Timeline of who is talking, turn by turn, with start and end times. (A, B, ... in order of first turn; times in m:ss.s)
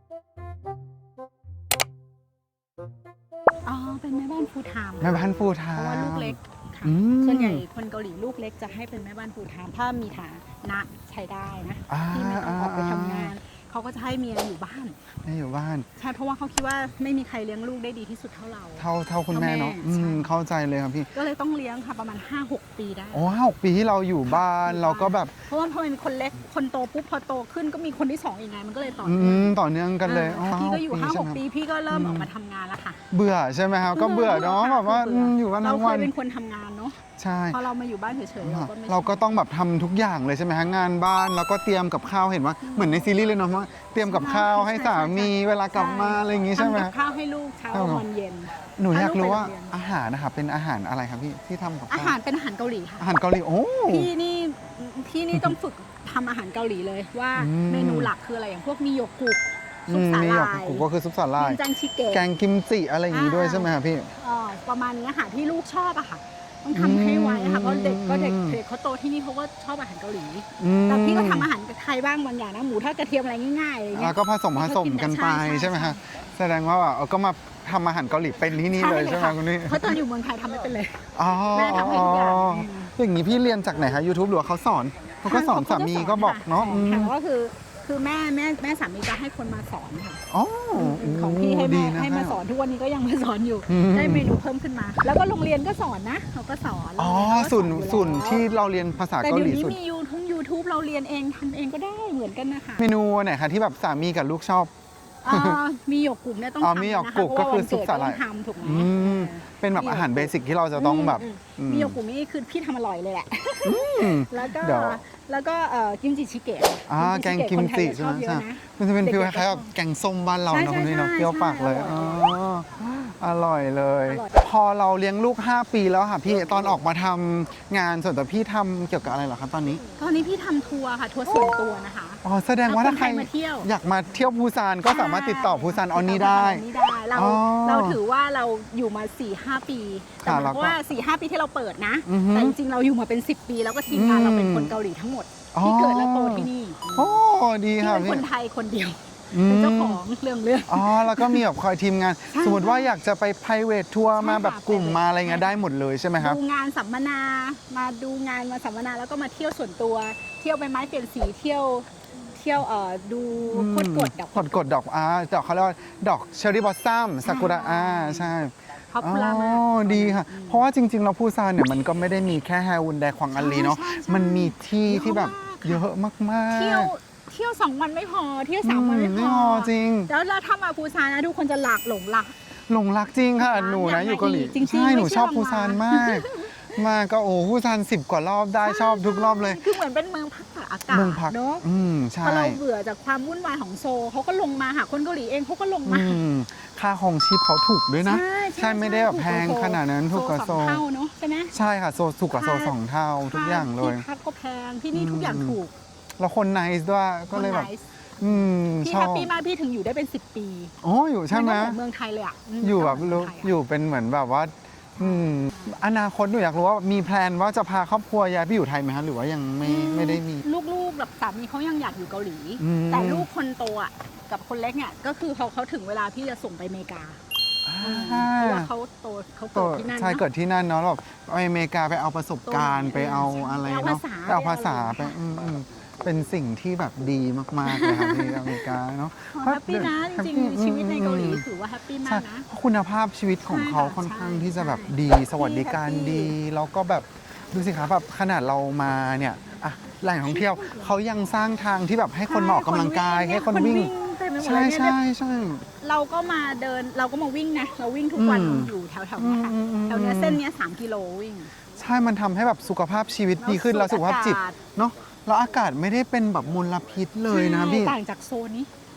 0:03.6-0:15.0 A
0:05.0-0:07.6 B
0:11.9-0:13.3 B
0:15.2-0:15.9 B
0:16.0-0:20.3 A
0:18.8-0:21.1 B
0:21.1-0:23.3 A
0:23.1-0:25.3 B
0:24.2-0:33.0 A
0:29.0-0:32.3 B
0:33.1-0:36.1 B
0:33.9-0:39.4 A
0:37.2-0:37.6 B
0:38.4-0:46.9 B
0:42.6-0:43.1 A
0:44.0-0:49.8 A
0:47.7-0:48.0 B
0:48.8-0:52.2 B
0:51.9-0:53.1 A
0:53.0-0:54.1 B
0:53.8-1:02.2 A
0:57.4-0:58.1 B
0:59.9-1:04.1 B
1:03.1-1:16.0 A
1:06.7-1:08.6 B
1:10.6-1:11.5 B
1:13.9-1:20.0 B
1:18.5-1:22.9 A
1:21.1-1:27.1 B
1:25.2-1:30.2 A
1:30.3-1:32.4 B
1:30.7-1:38.5 A
1:33.7-1:34.3 B
1:37.0-1:39.8 B
1:39.2-1:42.9 A
1:42.8-1:44.7 B
1:45.2-1:59.7 A
1:45.3-1:45.6 B
1:46.6-1:52.0 B
1:53.6-1:55.0 B
1:56.9-2:09.8 B
2:00.5-2:02.2 A
2:04.0-2:04.4 A
2:10.0-2:13.7 A
2:12.2-2:18.0 B
2:14.8-2:27.2 A
2:20.2-2:20.8 B
2:22.0-2:22.5 B
2:23.9-2:24.7 B
2:25.5-2:28.2 B
2:27.8-2:31.4 A
2:29.3-2:30.0 B
2:30.7-2:36.4 B
2:32.3-2:33.0 A
2:34.1-2:35.6 A
2:36.2-2:44.6 A
2:43.5-2:56.9 B
2:47.2-2:48.4 A
2:48.9-2:50.6 A
2:53.3-2:55.8 A
2:56.5-3:02.3 A
2:58.6-3:00.1 B
3:02.7-3:09.6 B
3:03.4-3:06.8 A
3:08.6-3:11.6 A
3:10.9-3:12.6 B
3:12.2-3:16.2 A
3:15.8-3:20.8 B
3:18.0-3:21.5 A
3:21.5-3:24.0 B
3:22.3-3:25.7 A
3:24.9-3:25.6 B
3:26.2-3:29.3 B
3:27.3-3:30.7 A
3:30.8-3:31.8 B
3:31.3-3:33.5 A
3:32.6-3:40.4 B
3:35.0-3:35.7 A
3:39.6-3:47.2 A
3:42.6-3:43.3 B
3:47.6-3:48.7 B
3:47.8-3:50.2 A
3:49.5-4:01.4 B
3:52.5-3:55.2 A
3:57.6-3:58.7 A
3:59.3-4:02.5 A
4:02.0-4:15.6 B
4:03.4-4:06.3 A
4:10.2-4:10.9 A
4:12.2-4:15.0 A
4:15.8-4:21.5 A
4:18.2-4:20.4 B
4:21.8-4:28.0 B
4:23.4-4:24.6 A
4:27.3-4:28.7 A